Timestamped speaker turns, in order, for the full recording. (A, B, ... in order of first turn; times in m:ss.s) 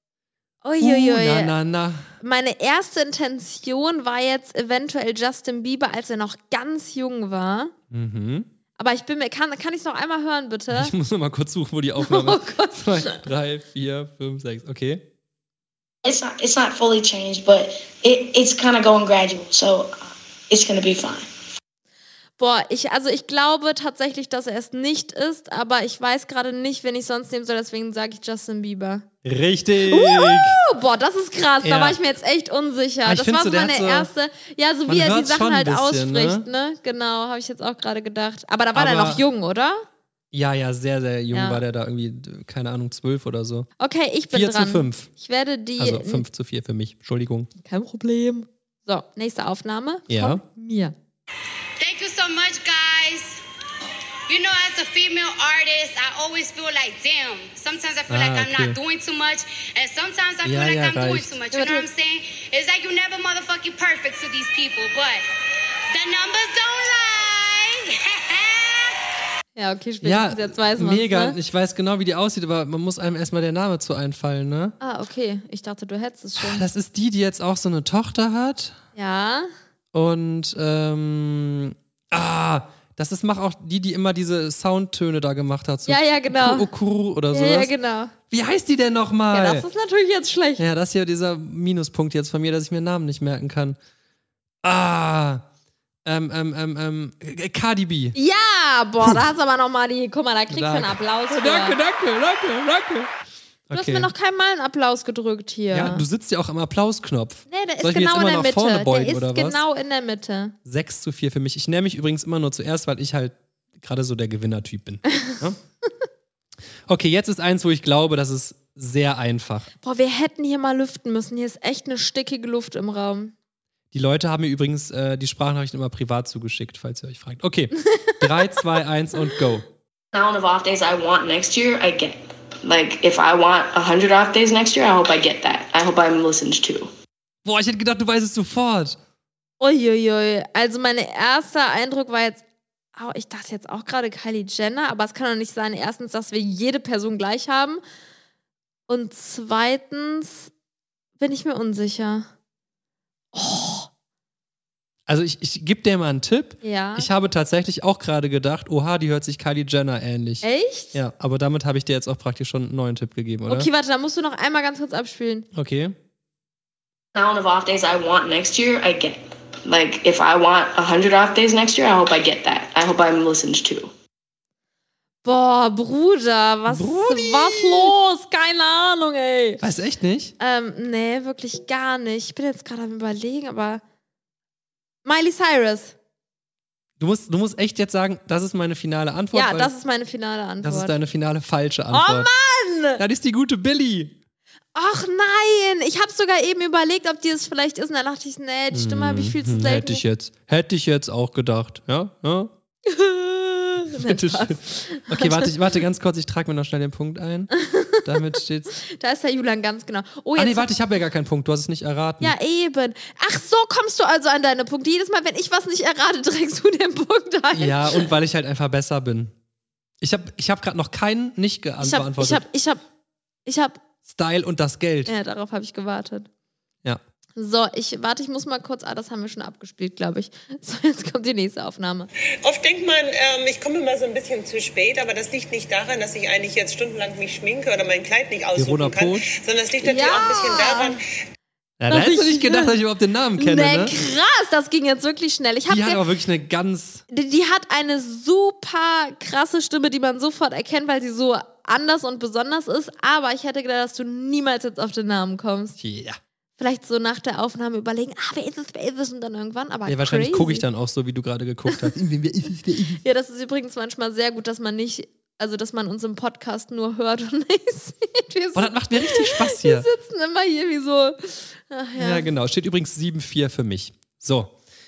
0:00.6-0:01.5 A
0:00.8-0:02.1 B
0:02.2-0:07.7 A
0:07.9-0:08.5 B
0:08.8-0:10.9 A
0:10.7-0:15.0 B
0:12.0-0:13.2 A
0:16.1-0:19.8 C
0:20.5-0:21.2 C
0:22.4-0:29.1 A
0:29.2-0:30.6 B
0:29.9-0:39.8 A
0:31.6-0:32.0 B
0:33.0-0:34.1 B
0:34.9-0:36.4 B
0:38.7-0:39.2 B
0:40.3-0:43.7 B
0:41.3-0:41.6 A
0:43.8-0:46.2 A
0:44.3-0:45.1 B
0:45.8-0:47.5 B
0:47.6-0:50.9 A
0:50.1-0:50.4 B
0:51.8-0:53.4 D
0:54.3-1:05.2 D
0:58.1-0:58.8 B
1:00.4-1:01.4 B
1:01.5-1:01.9 A
1:05.9-1:09.0 D
1:09.6-1:11.4 A
1:10.0-1:14.8 B
1:14.8-1:16.6 A
1:16.4-1:18.8 B
1:19.0-1:19.5 A
1:19.9-1:27.7 B
1:25.9-1:26.7 A
1:27.3-1:28.1 A
1:28.3-1:29.7 B
1:29.3-1:30.6 A
1:30.6-1:33.8 B
1:34.6-1:35.4 B
1:36.0-1:38.2 B
1:38.2-1:41.8 A
1:40.5-1:43.1 B
1:43.7-1:44.1 B
1:43.7-1:46.0 A
1:45.7-1:49.6 B
1:47.5-1:50.6 A
1:50.6-1:55.6 B
1:56.9-1:59.7 B
1:59.8-2:03.3 A
2:03.9-2:09.6 B
2:10.1-2:16.9 E
2:17.4-2:19.0 B
2:19.6-2:22.4 A
2:23.0-2:27.8 A
2:28.9-2:30.5 A
2:31.2-2:32.3 A
2:33.3-2:33.9 A
2:35.1-2:43.7 B
2:36.6-2:37.1 A
2:40.4-2:41.0 A
2:43.5-2:45.5 A
2:45.5-2:46.0 B
2:47.1-2:53.9 E
2:55.2-2:59.6 A
2:56.7-2:57.9 B
2:59.6-3:00.3 B
3:00.4-3:03.8 A
3:05.0-3:06.0 A
3:07.0-3:09.7 B
3:09.3-3:11.0 A
3:10.6-3:12.3 B
3:11.9-3:13.0 A
3:13.0-3:14.2 B
3:14.8-3:20.0 A
3:18.7-3:22.5 B
3:22.9-3:25.5 A
3:23.9-3:27.5 B
3:27.6-3:30.7 A
3:28.0-3:28.7 B
3:30.4-3:32.3 B
3:32.2-3:38.1 A
3:37.5-3:39.3 B
3:40.0-3:42.4 B
3:41.8-3:42.8 A
3:43.5-3:43.8 A
3:44.0-3:45.1 B
3:45.1-3:46.3 A
3:47.4-3:52.1 A
3:52.4-4:01.0 F
3:58.6-3:59.3 B
3:59.8-4:01.0 A
4:01.8-4:03.9 B
4:01.9-4:02.8 A
4:03.4-4:06.0 A
4:05.7-4:07.0 B
4:07.1-4:15.8 A
4:15.8-4:16.2 B
4:16.6-4:20.6 A
4:19.9-4:23.0 B
4:23.0-4:32.3 A
4:28.6-4:29.9 B
4:32.0-4:34.5 B